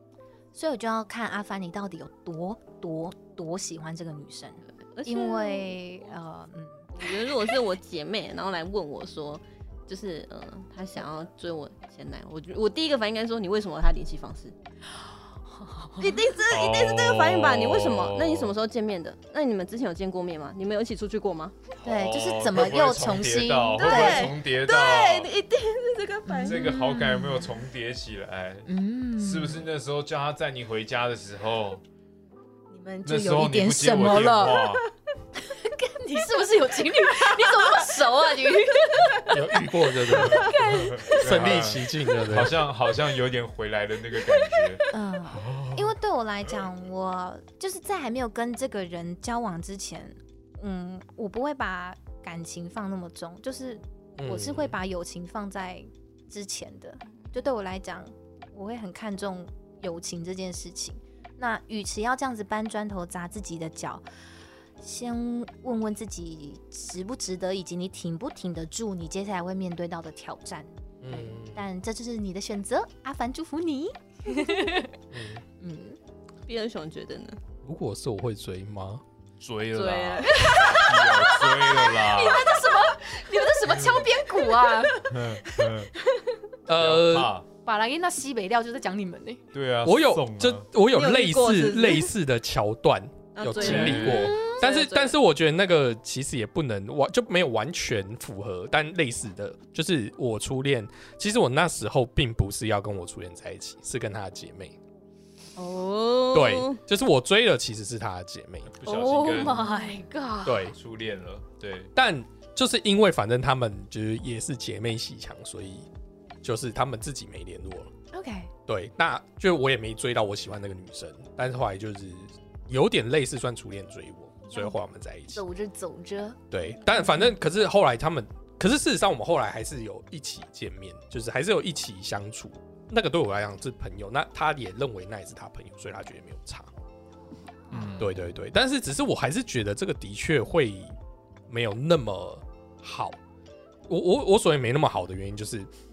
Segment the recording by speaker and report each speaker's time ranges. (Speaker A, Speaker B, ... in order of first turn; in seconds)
Speaker A: 0.5-7.1, 15.5-16.2, 21.8-24.3, 26.3-27.5, 28.6-29.6, 32.7-34.7, 35.3-41.2, 44.9-64.0, 64.8-74.9, 75.6-76.0, 80.3-85.1, 87.6-89.4, 108.8-110.7, 118.1-118.5, 124.5-124.8, 125.3-126.4, 126.9-127.3
Speaker B: 4.9-5.7, 6.9-14.5, 16.0-21.6, 23.8-26.6, 76.5-77.4, 79.7-81.2, 90.9-92.1, 93.3-95.1, 105.5-106.8
Speaker C: 16.5-18.6, 21.8-25.3, 26.4-31.8, 33.0-34.8, 40.1-45.9, 79.4-82.6, 83.7-84.0, 85.1-85.9, 86.7-87.5, 89.5-90.7, 93.5-94.4, 108.7-109.7, 110.7-111.9, 137.7-138.1
Speaker D: 39.2-42.6, 54.2-54.8, 71.0-71.6, 75.1-75.4, 77.6-79.0, 86.7-87.3, 89.8-104.8, 106.3-108.7, 110.4-110.8, 112.0-115.9, 116.4-117.9, 118.7-125.4, 126.5-136.7, 138.0-140.9, 141.5-143.2, 143.9-145.7